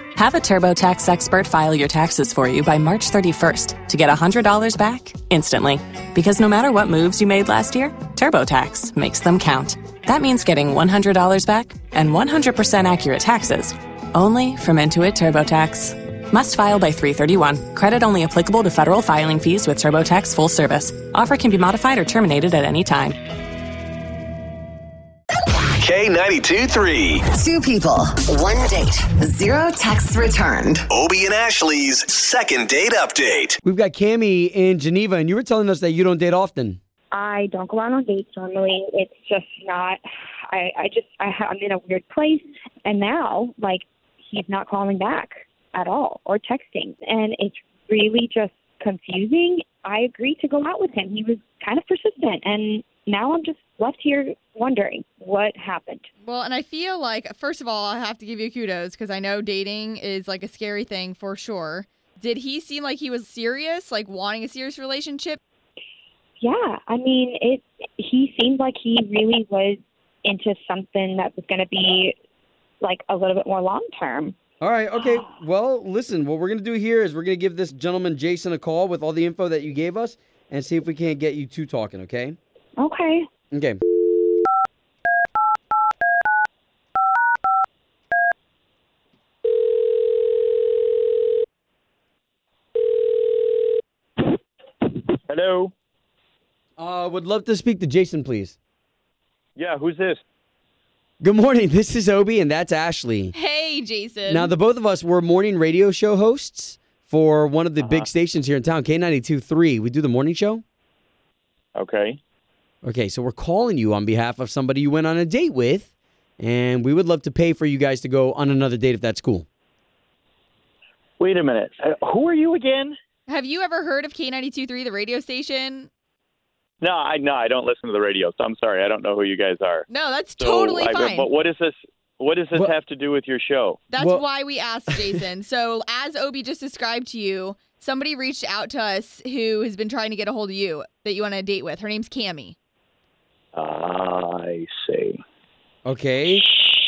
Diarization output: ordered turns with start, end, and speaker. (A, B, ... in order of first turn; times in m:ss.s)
0:00.2-0:23.2 A
0:25.8-0:27.3 B
0:27.3-0:30.9 C
0:30.9-0:33.6 B
0:33.6-0:36.8 D
0:37.1-0:56.1 E
0:56.2-1:05.4 F
1:06.4-1:12.2 E
1:12.8-1:14.4 E
1:14.6-1:22.4 D
1:22.8-1:23.3 E
1:23.5-1:23.8 D
1:35.3-1:35.7 G
1:36.8-1:38.6 D
1:39.6-1:40.2 G
1:41.2-1:43.3 D
1:43.3-1:44.5 F
1:44.3-1:50.6 D
1:47.8-1:48.1 G
1:51.8-1:52.2 G
1:52.8-1:59.5 D
2:01.2-2:03.0 G
2:03.3-2:05.9 F
2:06.8-2:09.9 G
2:09.9-2:11.3 F
2:10.4-2:13.8 G
2:13.9-2:22.6 F
2:14.0-2:14.2 D
2:14.9-2:15.2 D
2:23.6-2:25.2 G
2:25.8-2:26.5 D